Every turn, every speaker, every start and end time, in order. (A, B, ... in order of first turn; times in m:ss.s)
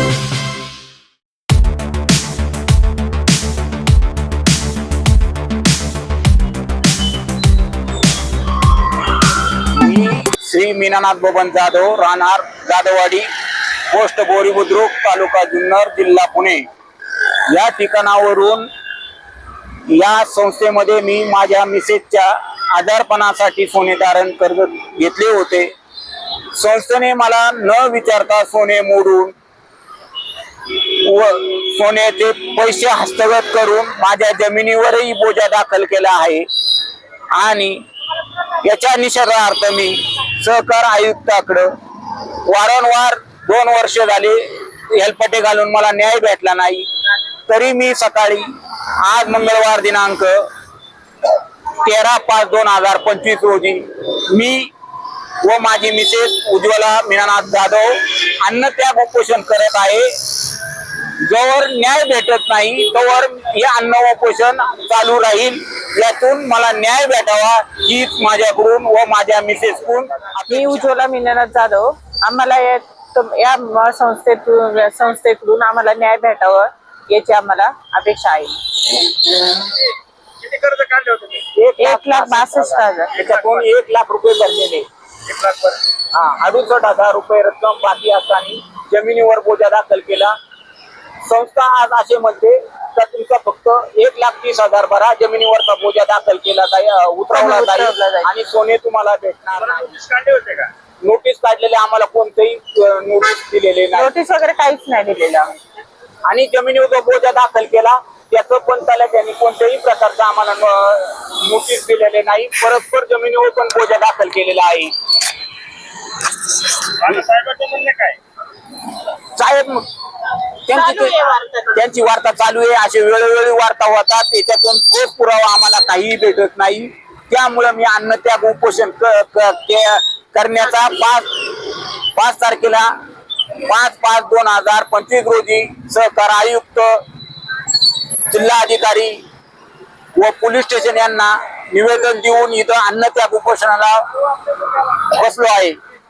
0:09.7-0:13.3 A
0:13.9-0:16.7 A
0:17.5-0:18.7 A
0:19.9-0:25.7 A
0:26.5-0:29.3 A
0:30.6-0:36.4 A
0:37.3-0:37.8 A
0:38.6-0:46.9 A
0:47.5-0:50.4 A
0:51.8-0:54.7 A
0:55.4-1:00.1 A
1:01.2-1:10.9 A
1:10.5-1:19.0 B
1:19.6-1:21.5 C
1:21.5-1:24.8 A
1:21.8-1:23.2 B
1:23.2-1:23.7 C
1:25.3-1:25.8 C
1:26.1-1:30.3 A
1:31.2-1:39.9 A
1:37.3-1:38.3 B
1:39.6-1:40.7 C
1:41.0-1:44.1 A
1:43.9-1:45.5 B
1:46.2-1:54.9 A
1:57.0-1:58.2 C
1:59.4-1:59.8 A
2:00.6-2:12.9 A
2:01.0-2:01.7 B
2:13.6-2:17.0 A
2:18.3-2:19.2 A
2:20.2-2:24.0 A
2:24.9-2:25.8 A